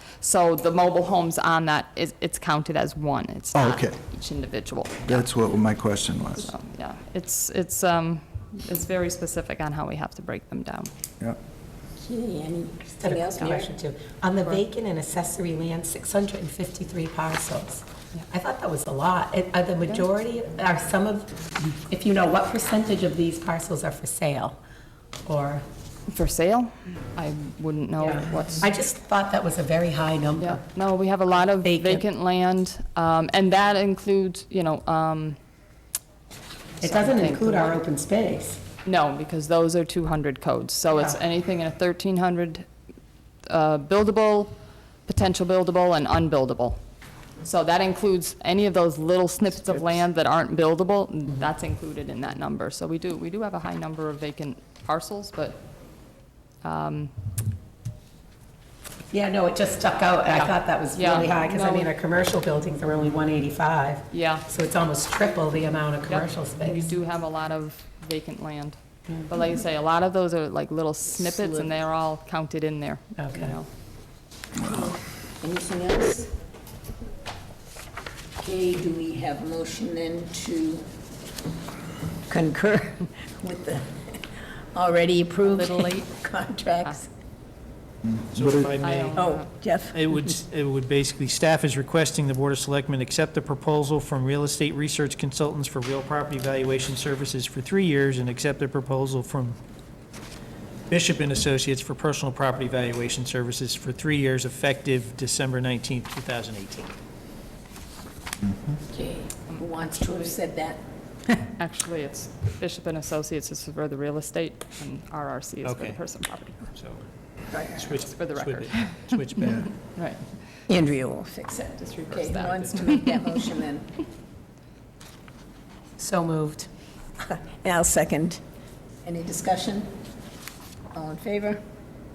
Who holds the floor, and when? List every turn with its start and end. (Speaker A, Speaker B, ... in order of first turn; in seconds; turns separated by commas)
Speaker A: 0.2-5.2, Speaker B: 3.5-4.0, Speaker B: 5.0-6.5, Speaker A: 6.4-10.9, Speaker C: 12.0-13.7, Speaker D: 13.0-24.6, Speaker D: 25.2-25.6, Speaker A: 26.1-28.7, Speaker D: 28.0-30.6, Speaker A: 30.4-35.4, Speaker D: 31.4-32.0, Speaker D: 36.8-38.6, Speaker A: 36.8-37.8, Speaker A: 38.8-42.6, Speaker A: 43.5-44.5, Speaker A: 45.1-46.8, Speaker A: 47.4-55.5, Speaker A: 56.6-57.1, Speaker D: 59.1-66.9, Speaker A: 60.3-61.9, Speaker A: 64.1-64.4, Speaker A: 66.1-73.7, Speaker C: 71.2-71.7, Speaker D: 73.2-73.5, Speaker C: 74.7-76.3, Speaker C: 78.4-80.8, Speaker C: 82.3-83.9, Speaker C: 84.7-87.1, Speaker A: 85.5-86.1, Speaker B: 88.0-88.8, Speaker E: 88.3-89.3, Speaker A: 88.8-89.5, Speaker C: 89.1-90.0, Speaker E: 89.9-99.6, Speaker E: 100.9-106.9, Speaker C: 108.9-110.8, Speaker A: 109.5-110.3, Speaker A: 111.6-116.7, Speaker E: 115.6-116.0, Speaker E: 116.7-117.0, Speaker C: 117.5-117.9, Speaker E: 117.7-119.8, Speaker A: 118.0-120.2, Speaker C: 120.7-123.9, Speaker A: 121.8-123.0, Speaker D: 126.0-126.7, Speaker C: 127.5-128.4, Speaker C: 129.0-129.9, Speaker C: 130.9-131.6